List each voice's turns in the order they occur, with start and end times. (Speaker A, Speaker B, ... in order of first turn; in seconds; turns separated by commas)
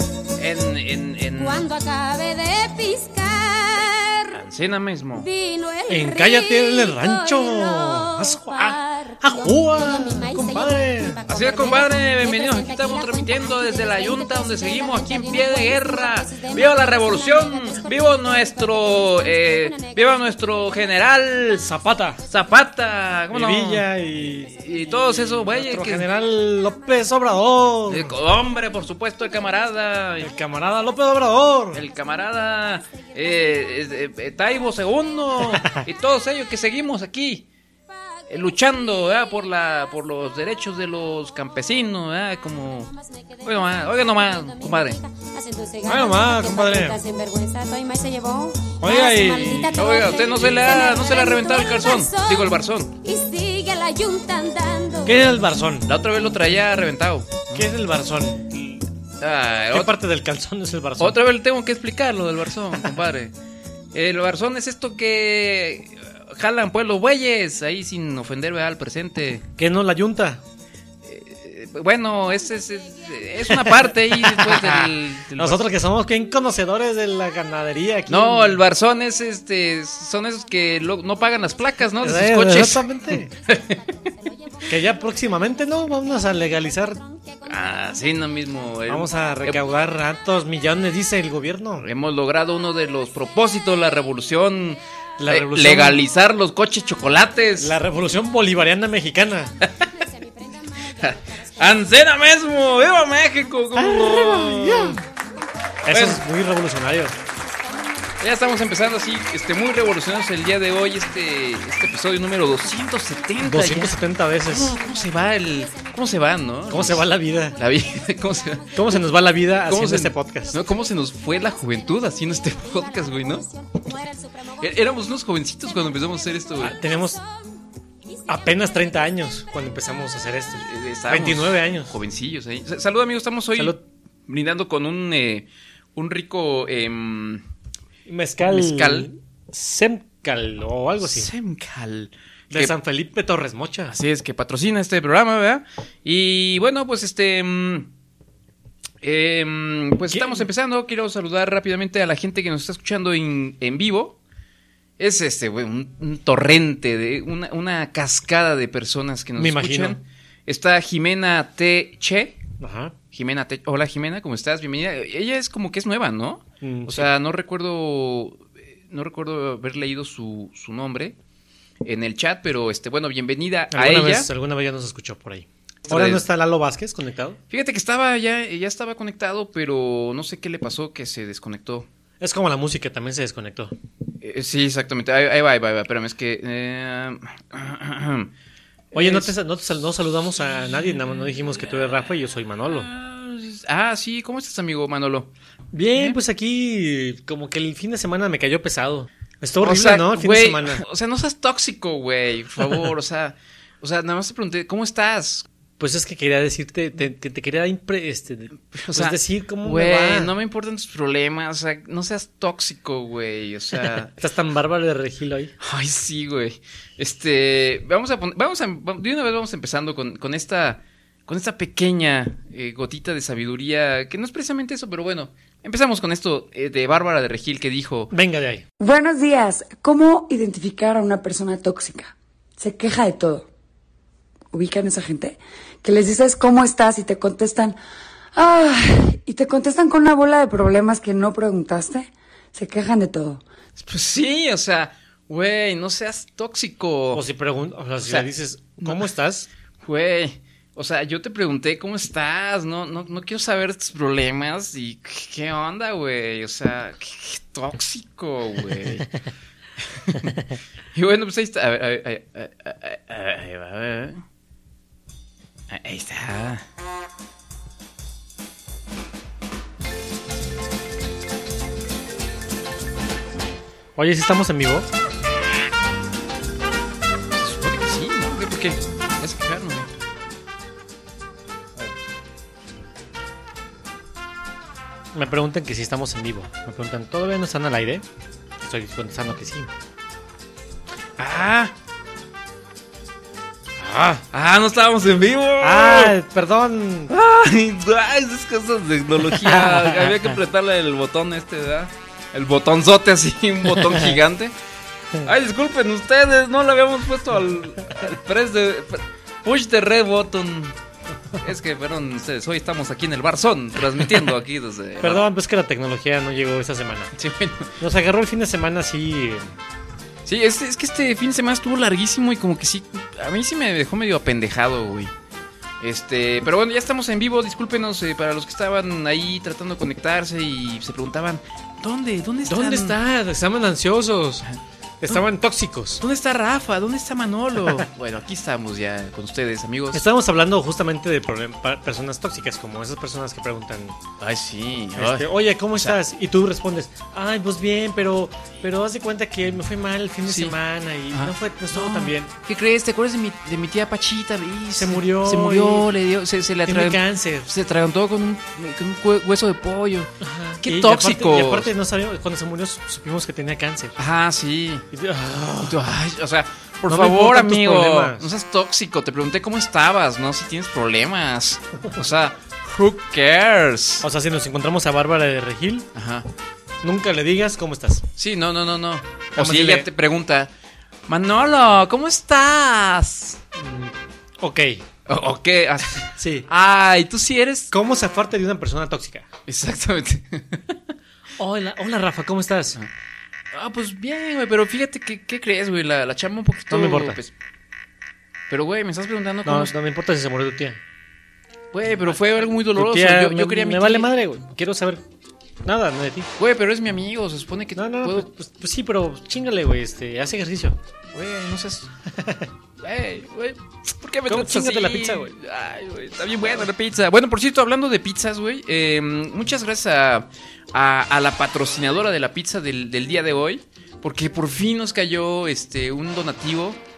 Speaker A: 0.4-1.6, Speaker B: 1.4-4.4, Speaker A: 4.3-5.3, Speaker B: 5.1-23.2, Speaker C: 5.9-11.2, Speaker A: 11.3-21.6, Speaker C: 21.6-22.2, Speaker A: 22.3-23.9, Speaker C: 23.3-24.6, Speaker B: 23.9-35.7, Speaker A: 24.5-26.1, Speaker C: 25.2-28.1, Speaker A: 27.9-30.3, Speaker C: 30.2-31.8, Speaker A: 31.7-37.5, Speaker C: 35.5-35.8, Speaker B: 38.2-41.7, Speaker A: 38.3-42.9, Speaker B: 42.4-55.3, Speaker A: 43.4-45.0, Speaker C: 45.8-47.0, Speaker C: 48.8-50.5, Speaker A: 49.7-52.9, Speaker C: 55.0-55.9, Speaker A: 55.9-57.7, Speaker C: 57.5-58.9, Speaker A: 59.2-60.0, Speaker C: 59.7-61.2, Speaker A: 61.0-63.3, Speaker A: 63.9-69.4, Speaker C: 69.6-70.4, Speaker A: 71.0-75.6, Speaker B: 72.2-73.6, Speaker C: 73.5-78.6, Speaker A: 78.1-82.8, Speaker B: 79.1-89.4, Speaker C: 82.0-83.3, Speaker A: 83.5-83.8, Speaker C: 84.7-87.0, Speaker A: 87.5-89.6, Speaker C: 88.9-91.8, Speaker A: 91.8-97.8, Speaker B: 92.9-94.5, Speaker C: 95.2-96.0, Speaker B: 97.0-98.4, Speaker C: 97.6-99.5, Speaker B: 98.9-129.1, Speaker A: 101.0-105.0, Speaker C: 103.7-105.0, Speaker C: 105.8-107.1, Speaker A: 105.9-106.2, Speaker A: 108.2-119.0, Speaker C: 113.4-114.7, Speaker C: 116.7-117.6, Speaker C: 118.7-120.6, Speaker A: 119.7-123.4, Speaker A: 124.6-126.7, Speaker C: 126.6-127.2, Speaker C: 128.3-131.9, Speaker A: 130.6-137.4, Speaker C: 138.1-141.3, Speaker A: 138.4-139.1, Speaker A: 141.0-142.7, Speaker C: 142.5-143.9, Speaker A: 143.9-147.9, Speaker A: 149.0-154.2, Speaker C: 150.1-150.5, Speaker A: 155.0-162.4, Speaker C: 159.4-160.0, Speaker C: 162.6-162.9, Speaker A: 163.1-171.2, Speaker C: 166.6-167.1, Speaker A: 171.8-174.3, Speaker C: 173.7-177.4, Speaker A: 175.8-176.2, Speaker A: 177.5-181.9, Speaker C: 182.2-183.7, Speaker A: 184.2-188.3, Speaker A: 188.9-189.3, Speaker C: 188.9-192.9, Speaker A: 192.7-195.3, Speaker C: 195.7-200.8, Speaker A: 199.6-205.5, Speaker C: 205.8-210.3, Speaker A: 208.7-214.1, Speaker C: 213.8-215.5, Speaker A: 215.6-228.1, Speaker C: 228.1-228.6, Speaker D: 228.8-233.5, Speaker D: 234.5-237.8, Speaker D: 238.3-243.4, Speaker A: 243.8-247.2, Speaker C: 247.1-249.5, Speaker A: 249.8-259.2, Speaker A: 259.8-264.2, Speaker A: 265.7-266.6, Speaker C: 273.9-274.9, Speaker A: 277.3-279.9, Speaker C: 285.1-288.0, Speaker C: 288.6-289.7, Speaker A: 291.2-291.7, Speaker C: 293.8-294.2, Speaker A: 294.3-296.1, Speaker C: 295.6-297.1, Speaker A: 297.1-304.5, Speaker C: 299.4-300.1, Speaker A: 305.2-310.8, Speaker A: 311.4-315.2, Speaker C: 315.0-317.1, Speaker A: 317.2-317.7, Speaker C: 317.8-319.5, Speaker A: 320.2-325.1, Speaker A: 325.8-333.0, Speaker C: 332.5-334.5, Speaker C: 335.0-336.0, Speaker A: 336.0-340.0, Speaker C: 339.9-344.0, Speaker A: 344.2-346.0, Speaker C: 344.9-352.3, Speaker A: 350.2-350.6, Speaker A: 351.1-361.7, Speaker C: 354.8-355.9, Speaker C: 356.6-357.5, Speaker C: 360.2-364.0, Speaker A: 364.0-364.9, Speaker C: 364.9-365.8, Speaker A: 365.6-374.0, Speaker C: 366.9-368.3, Speaker C: 374.0-375.9, Speaker A: 375.9-376.3, Speaker C: 376.8-378.1, Speaker A: 378.2-380.5, Speaker C: 379.3-379.9, Speaker A: 381.1-383.4, Speaker C: 383.6-384.8, Speaker A: 385.1-387.7, Speaker C: 386.1-386.5, Speaker C: 387.7-389.3, Speaker A: 389.5-390.8, Speaker C: 391.4-392.8, Speaker A: 393.5-397.3, Speaker C: 396.7-397.2, Speaker A: 398.5-399.7, Speaker C: 399.4-400.8, Speaker A: 401.7-404.1, Speaker C: 402.1-405.0, Speaker C: 405.6-406.3, Speaker A: 406.4-408.3, Speaker C: 407.7-410.8, Speaker A: 411.1-411.9, Speaker C: 412.1-412.5, Speaker A: 412.8-426.8, Speaker C: 414.3-415.3